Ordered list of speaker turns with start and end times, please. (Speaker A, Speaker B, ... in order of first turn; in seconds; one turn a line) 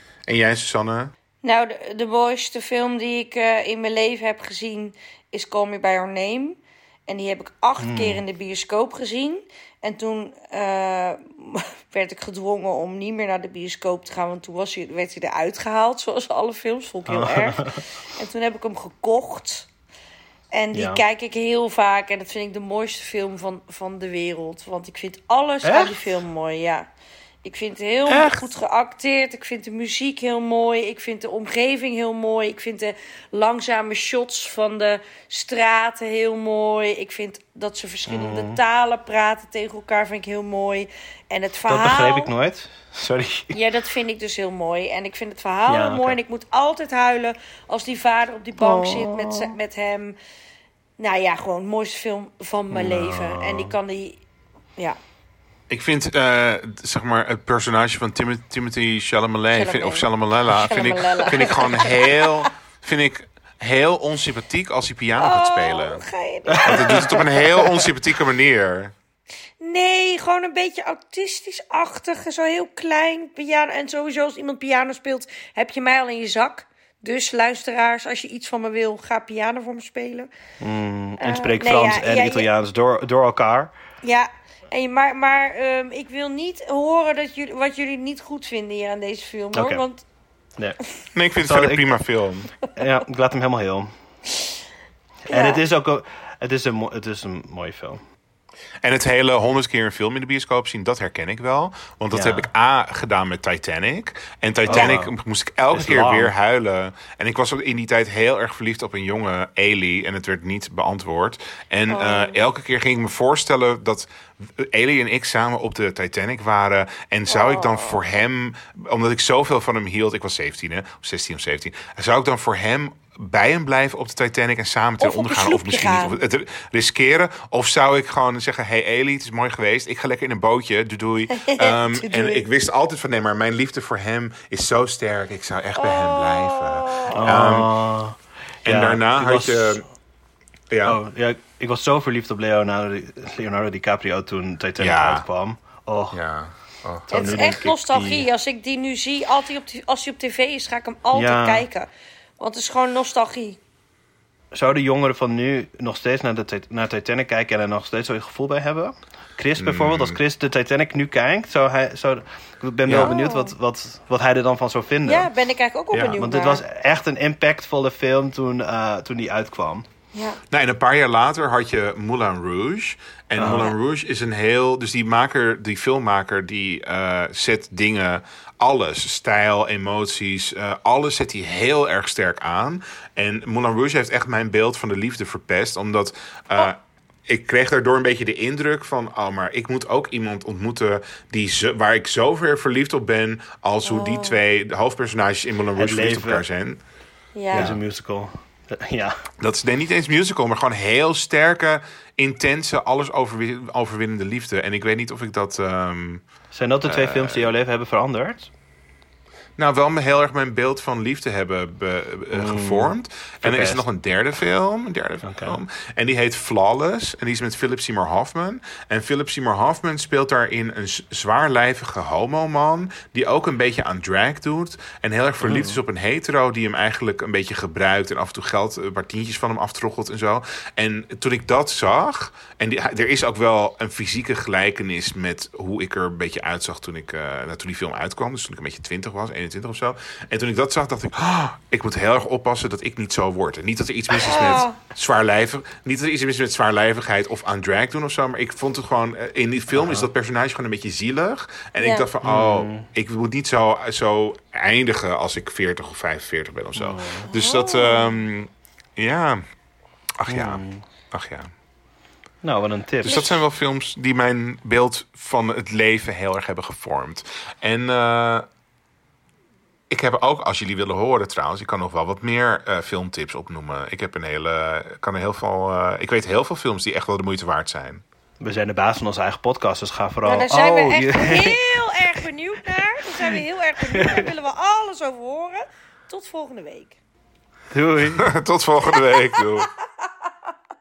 Speaker A: 0.2-1.1
Speaker B: 1.4-19.7
Speaker C: 7.8-8.2
Speaker C: 17.1-17.8
Speaker B: 20.5-26.9
Speaker C: 20.7-21.0
Speaker C: 25.6-26.1
Speaker B: 27.4-42.3
Speaker A: 28.1-28.4
Speaker C: 38.1-38.6
Speaker C: 41.7-43.6
Speaker B: 43.5-50.1
Speaker C: 45.7-46.2
Speaker C: 48.6-49.5
Speaker B: 51.0-54.2
Speaker C: 52.7-53.8
Speaker A: 55.7-66.0
Speaker B: 59.5-62.5
Speaker B: 65.2-67.3
Speaker C: 66.5-67.8
Speaker A: 66.6-68.9
Speaker B: 69.6-80.3
Speaker C: 80.6-83.7
Speaker B: 81.2-82.5
Speaker B: 84.0-90.0
Speaker C: 89.5-89.8
Speaker A: 91.1-92.5
Speaker C: 91.4-91.8
Speaker C: 92.7-93.9
Speaker C: 95.3-98.0
Speaker B: 95.3-95.6
Speaker A: 98.8-137.7
Speaker C: 102.1-102.5
Speaker C: 104.7-105.1
Speaker B: 104.7-104.9
Speaker C: 105.7-106.3
Speaker B: 111.9-112.4
Speaker B: 117.3-118.0
Speaker B: 125.0-126.2
Speaker B: 131.3-132.4
Speaker B: 135.8-137.2
Speaker C: 137.1-139.8
Speaker A: 138.7-139.8
Speaker A: 140.7-141.0
Speaker C: 140.8-146.2
Speaker A: 144.8-145.2
Speaker A: 146.1-147.5
Speaker B: 147.1-153.6
Speaker C: 147.1-148.3
Speaker C: 151.1-151.6
Speaker C: 154.5-165.3
Speaker A: 159.6-160.2
Speaker A: 162.9-163.1
Speaker B: 163.0-163.5
Speaker B: 165.1-166.6
Speaker C: 166.1-169.8
Speaker B: 170.1-170.4
Speaker A: 170.5-196.8
Speaker C: 173.4-173.7
Speaker B: 193.8-194.4
Speaker C: 195.8-196.4
Speaker B: 197.3-197.7
Speaker A: 197.5-197.8
Speaker C: 197.5-199.2
Speaker A: 199.4-206.2
Speaker C: 206.5-208.5
Speaker A: 206.8-207.5
Speaker A: 209.6-259.4
Speaker C: 212.3-213.8
Speaker C: 215.2-215.6
Speaker C: 225.4-225.8
Speaker B: 244.1-244.8
Speaker C: 249.7-250.1
Speaker B: 251.8-252.1
Speaker C: 252.2-252.9
Speaker C: 256.8-257.3
Speaker B: 257.3-258.2
Speaker A: 260.2-261.5
Speaker C: 260.3-260.8
Speaker C: 262.4-263.3
Speaker A: 263.0-268.5
Speaker B: 263.1-263.4
Speaker A: 269.9-278.0
Speaker C: 278.4-282.0
Speaker B: 280.2-287.0
Speaker C: 283.2-284.3
Speaker C: 287.7-288.2
Speaker A: 288.1-289.7
Speaker B: 288.9-290.3